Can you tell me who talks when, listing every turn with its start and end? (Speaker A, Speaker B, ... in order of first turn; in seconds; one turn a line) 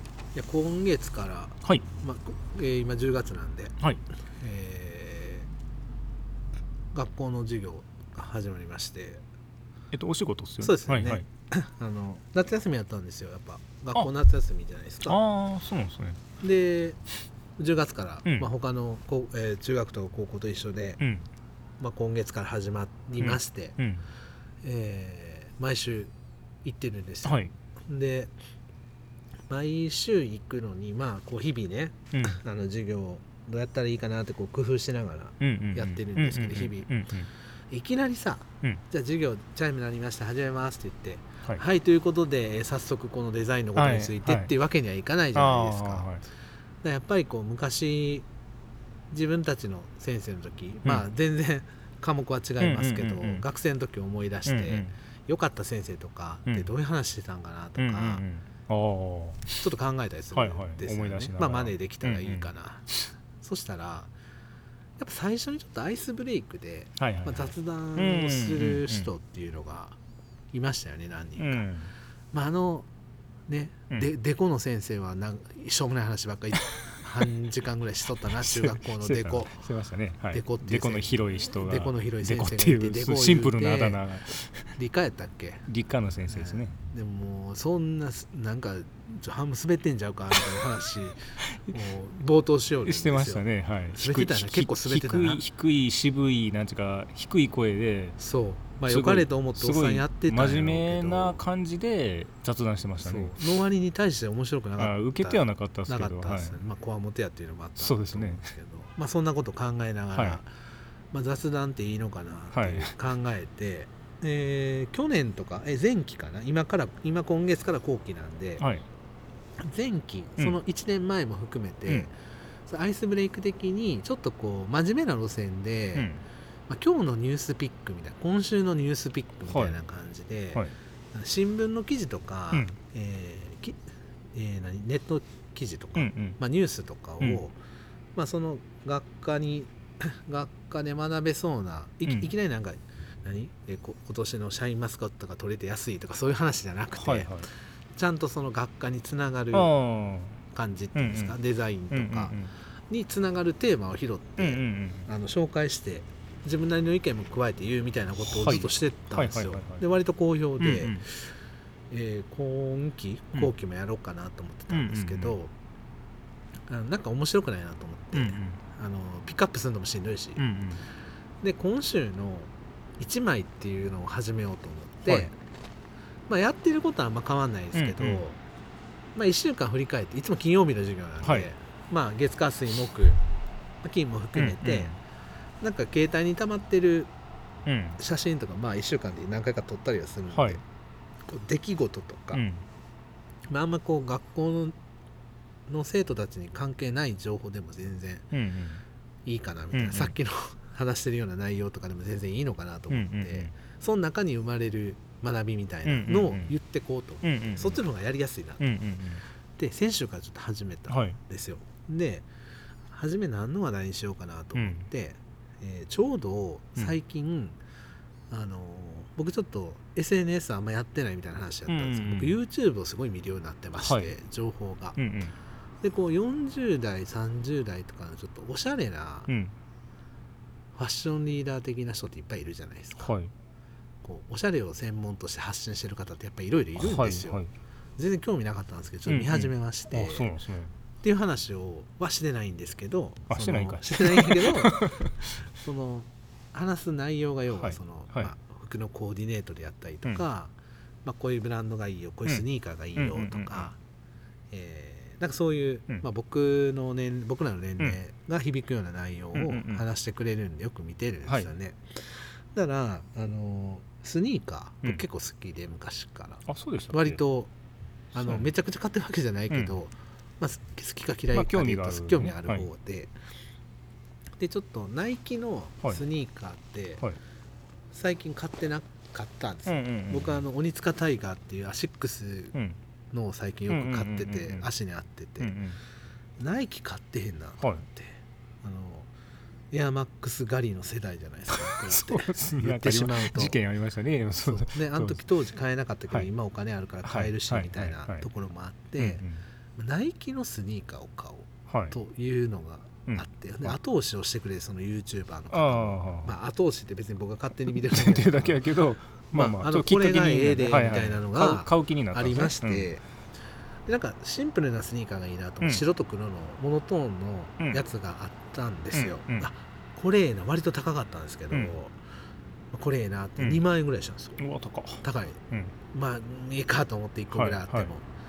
Speaker A: 0.3-3.8
Speaker A: 4.4-5.5
Speaker A: 6.9-9.2
Speaker B: 9.9-11.3
Speaker A: 10.6-15.2
Speaker B: 15.1-16.2
Speaker A: 16.4-17.0
Speaker A: 17.6-21.0
Speaker B: 21.0-21.3
Speaker A: 21.8-23.8
Speaker B: 23.2-24.1
Speaker A: 24.6-26.1
Speaker A: 26.6-28.3
Speaker B: 27.2-27.5
Speaker A: 29.5-36.9
Speaker B: 32.1-32.4
Speaker B: 35.4-37.3
Speaker A: 37.7-46.1
Speaker B: 43.8-44.5
Speaker B: 45.4-46.2
Speaker A: 46.8-48.3
Speaker A: 49.1-58.2
Speaker B: 52.6-53.5
Speaker B: 54.5-54.9
Speaker B: 57.8-59.6
Speaker A: 59.6-64.1
Speaker B: 60.3-62.5
Speaker A: 65.0-70.0
Speaker B: 67.0-69.1
Speaker A: 70.5-71.7
Speaker B: 71.4-71.9
Speaker A: 72.3-72.9
Speaker A: 73.5-79.6
Speaker B: 78.4-84.7
Speaker A: 80.3-84.0
Speaker A: 84.8-85.7
Speaker B: 85.7-86.8
Speaker A: 86.3-95.4
Speaker B: 91.5-91.8
Speaker B: 92.8-98.2
Speaker A: 98.2-101.4
Speaker B: 98.9-103.4
Speaker A: 103.0-110.5
Speaker B: 104.8-106.6
Speaker B: 107.8-108.5
Speaker B: 110.1-110.4
Speaker A: 111.1-118.7
Speaker B: 112.5-112.9
Speaker B: 118.6-118.8
Speaker A: 119.6-122.1
Speaker A: 122.7-126.1
Speaker B: 126.0-126.2
Speaker A: 126.7-133.8
Speaker B: 129.5-129.8
Speaker A: 134.3-137.6
Speaker B: 136.0-136.4
Speaker A: 138.2-149.7
Speaker B: 142.1-142.3
Speaker B: 147.0-147.5
Speaker B: 149.5-150.4
Speaker A: 150.5-152.3
Speaker B: 150.9-151.4
Speaker B: 151.9-152.5
Speaker A: 152.9-161.3
Speaker B: 154.4-155.1
Speaker B: 158.3-159.9
Speaker B: 160.6-161.0
Speaker A: 161.9-165.5
Speaker B: 164.7-165.4
Speaker A: 166.7-170.4
Speaker B: 168.1-168.6
Speaker B: 170.4-170.9
Speaker A: 171.4-175.4
Speaker A: 176.3-178.4
Speaker B: 177.7-178.2
Speaker A: 179.2-183.2
Speaker B: 181.2-181.5
Speaker A: 183.8-184.9
Speaker B: 184.3-185.0
Speaker A: 185.6-187.1
Speaker B: 187.7-188.0
Speaker A: 188.0-190.6
Speaker B: 190.3-190.6
Speaker A: 191.3-192.4
Speaker B: 192.3-192.6
Speaker A: 193.5-194.8
Speaker A: 195.7-198.3
Speaker B: 198.3-198.8
Speaker A: 199.3-208.7
Speaker B: 199.7-200.1
Speaker B: 202.9-203.5
Speaker B: 205.9-206.5
Speaker B: 207.2-207.8
Speaker B: 208.6-209.2
Speaker A: 209.6-212.3
Speaker B: 210.9-211.2
Speaker A: 212.9-217.6
Speaker B: 214.6-214.9
Speaker A: 218.3-225.0
Speaker B: 221.7-222.4
Speaker B: 223.8-224.1
Speaker B: 225.0-225.3
Speaker A: 225.8-229.3
Speaker B: 229.3-229.6
Speaker A: 230.8-233.1
Speaker B: 233.0-233.3
Speaker A: 234.0-237.4
Speaker B: 236.8-237.5
Speaker A: 238.0-240.3
Speaker B: 239.1-240.7
Speaker A: 241.0-244.9
Speaker B: 243.3-245.3
Speaker A: 245.5-250.5
Speaker B: 247.5-248.3
Speaker A: 251.1-253.8
Speaker B: 253.0-253.7
Speaker A: 254.5-267.5
Speaker B: 259.3-259.8
Speaker B: 261.3-261.5
Speaker B: 266.5-267.2
Speaker B: 268.1-268.5
Speaker A: 268.1-273.1
Speaker B: 269.5-269.8
Speaker B: 271.3-272.7
Speaker A: 274.4-277.0
Speaker A: 277.9-282.6
Speaker B: 279.7-280.4
Speaker A: 283.1-285.6
Speaker B: 283.7-284.7
Speaker B: 285.4-285.8
Speaker A: 286.4-289.1
Speaker B: 287.6-287.9
Speaker A: 289.7-293.6
Speaker B: 291.5-295.2
Speaker A: 294.4-299.2
Speaker B: 297.1-298.3
Speaker B: 299.0-299.4
Speaker A: 299.8-308.6
Speaker B: 301.7-302.0
Speaker B: 305.5-306.3
Speaker B: 307.7-312.9
Speaker A: 309.3-313.0
Speaker A: 313.9-322.0
Speaker B: 318.9-319.5
Speaker A: 322.7-324.4
Speaker B: 323.4-323.6
Speaker B: 324.4-325.7
Speaker A: 325.0-328.1
Speaker B: 327.3-327.9